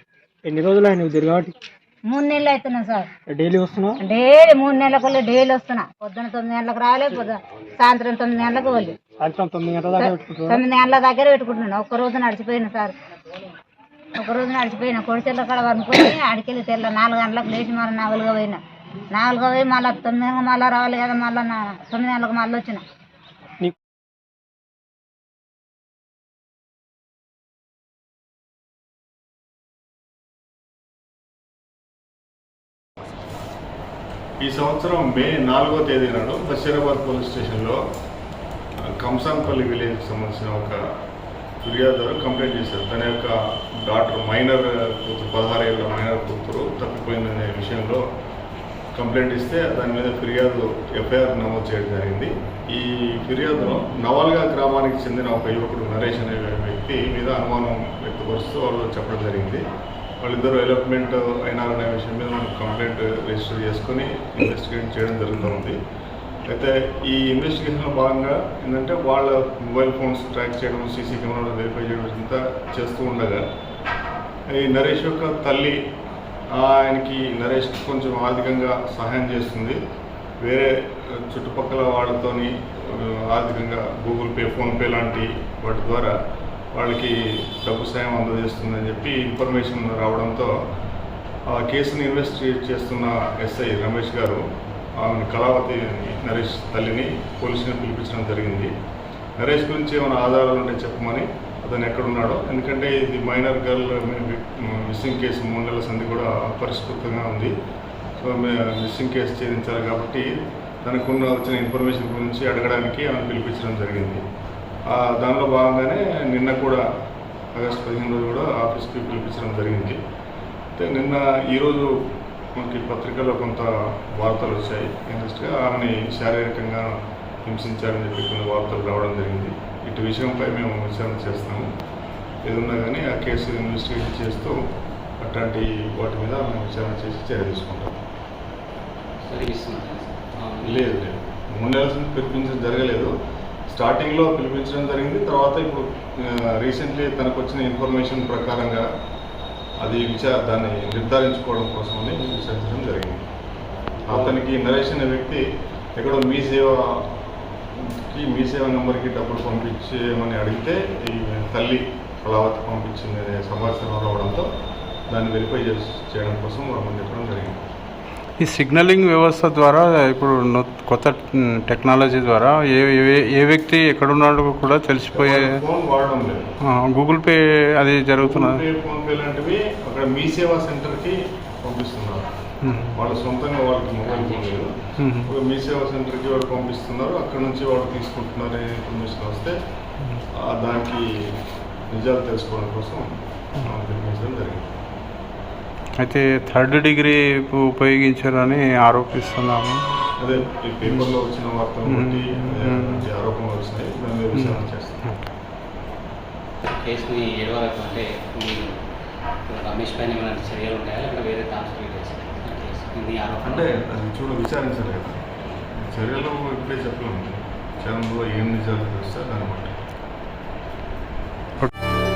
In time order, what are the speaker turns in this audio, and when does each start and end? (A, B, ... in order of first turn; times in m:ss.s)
0:00.4-0:01.5 A
0:02.1-0:03.1 B
0:03.3-0:04.0 A
0:04.0-0:08.9 B
0:09.2-0:10.6 A
0:10.0-0:12.9 B
0:14.2-0:18.6 B
0:19.1-0:22.8 B
0:34.4-0:37.8 C
0:38.9-0:40.8 C
0:41.6-0:48.0 C
0:48.9-0:59.6 C
1:00.2-1:05.8 C
1:06.5-1:13.4 C
1:14.6-1:15.8 C
1:16.5-1:19.8 C
1:20.4-1:26.1 C
1:26.7-1:30.5 C
1:31.5-1:34.4 C
1:35.0-1:38.7 C
1:39.4-1:47.5 C
1:48.2-1:50.3 C
1:50.8-1:54.2 C
1:54.9-1:56.8 C
1:57.5-2:00.0 C
2:00.8-2:01.9 C
2:02.6-2:06.9 C
2:07.4-2:11.7 C
2:12.4-2:14.6 C
2:15.2-2:17.9 C
2:19.2-2:20.9 D
2:20.6-2:23.1 C
2:23.7-2:28.8 C
2:29.8-2:33.2 C
2:34.1-2:35.4 C
2:36.0-2:37.0 C
2:38.1-2:44.4 C
2:45.1-2:47.6 C
2:48.4-2:55.4 E
2:55.1-2:56.4 C
2:56.7-2:58.6 E
2:58.2-3:02.3 C
3:02.6-3:03.0 E
3:02.9-3:09.6 C
3:04.1-3:04.7 D
3:05.0-3:05.3 E
3:10.4-3:11.0 C
3:11.9-3:13.0 C
3:13.6-3:14.6 C
3:16.0-3:20.0 E
3:20.2-3:25.0 C
3:20.8-3:21.1 E
3:21.9-3:23.1 E
3:24.3-3:25.1 E
3:26.8-3:28.8 D
3:29.5-3:33.8 D
3:33.4-3:35.2 C
3:35.8-3:39.7 C